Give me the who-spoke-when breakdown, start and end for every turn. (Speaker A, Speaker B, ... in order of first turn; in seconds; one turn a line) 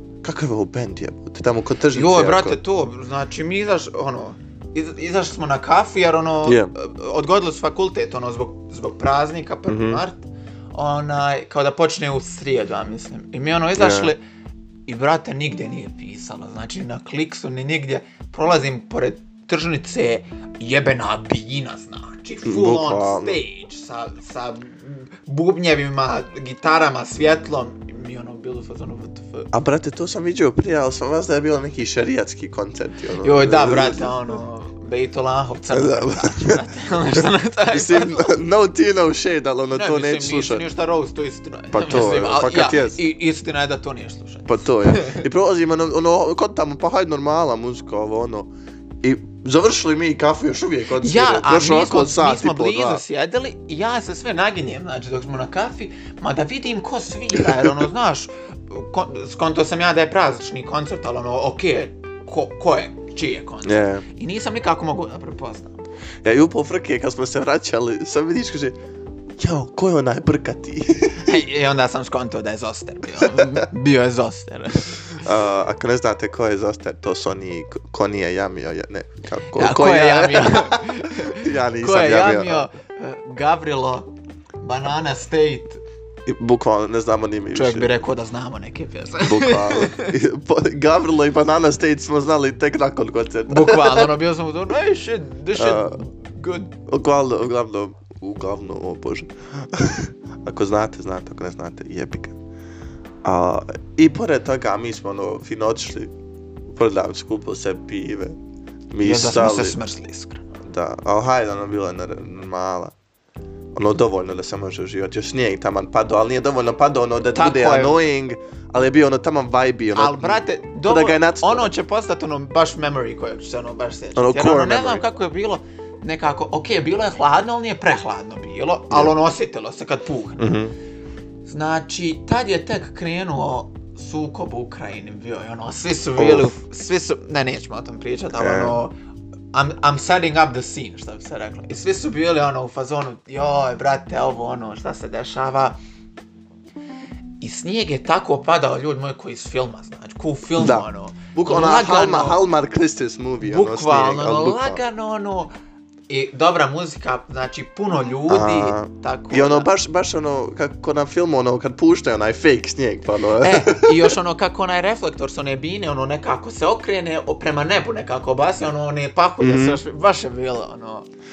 Speaker A: 0.2-2.6
Speaker B: 1.9-14.2
Speaker A: 6.4-6.7
Speaker A: 9.7-10.0
Speaker A: 13.8-14.1
Speaker B: 14.9-29.5
Speaker A: 22.4-23.4
Speaker A: 29.5-34.2
Speaker B: 33.2-38.3
Speaker A: 35.7-36.6
Speaker A: 37.1-40.6
Speaker B: 39.7-45.2
Speaker A: 41.7-43.0
Speaker A: 44.5-48.5
Speaker A: 49.0-53.0
Speaker B: 51.0-65.8
Speaker A: 57.3-57.8
Speaker A: 63.6-64.0
Speaker A: 66.2-68.8
Speaker A: 69.4-71.4
Speaker B: 71.2-75.2
Speaker A: 73.2-73.7
Speaker A: 75.1-82.7
Speaker B: 79.5-84.1
Speaker B: 84.6-85.8
Speaker A: 86.2-87.9
Speaker B: 87.5-90.1
Speaker A: 89.2-94.1
Speaker B: 93.5-96.7
Speaker A: 95.6-96.0
Speaker A: 96.9-102.4
Speaker A: 103.2-106.1
Speaker A: 106.7-108.4
Speaker A: 108.9-109.8
Speaker B: 109.0-110.4
Speaker A: 110.6-112.9
Speaker A: 113.8-121.7
Speaker B: 117.3-118.1
Speaker B: 119.9-130.6
Speaker A: 124.2-125.0
Speaker A: 128.9-129.1
Speaker A: 130.4-130.7
Speaker B: 131.4-138.9
Speaker A: 136.2-136.5
Speaker A: 138.4-138.8
Speaker B: 139.5-145.8
Speaker B: 147.4-152.4
Speaker A: 150.5-154.8
Speaker B: 153.4-155.5
Speaker B: 156.1-159.7
Speaker A: 158.3-164.2
Speaker B: 163.4-171.1
Speaker A: 169.4-169.8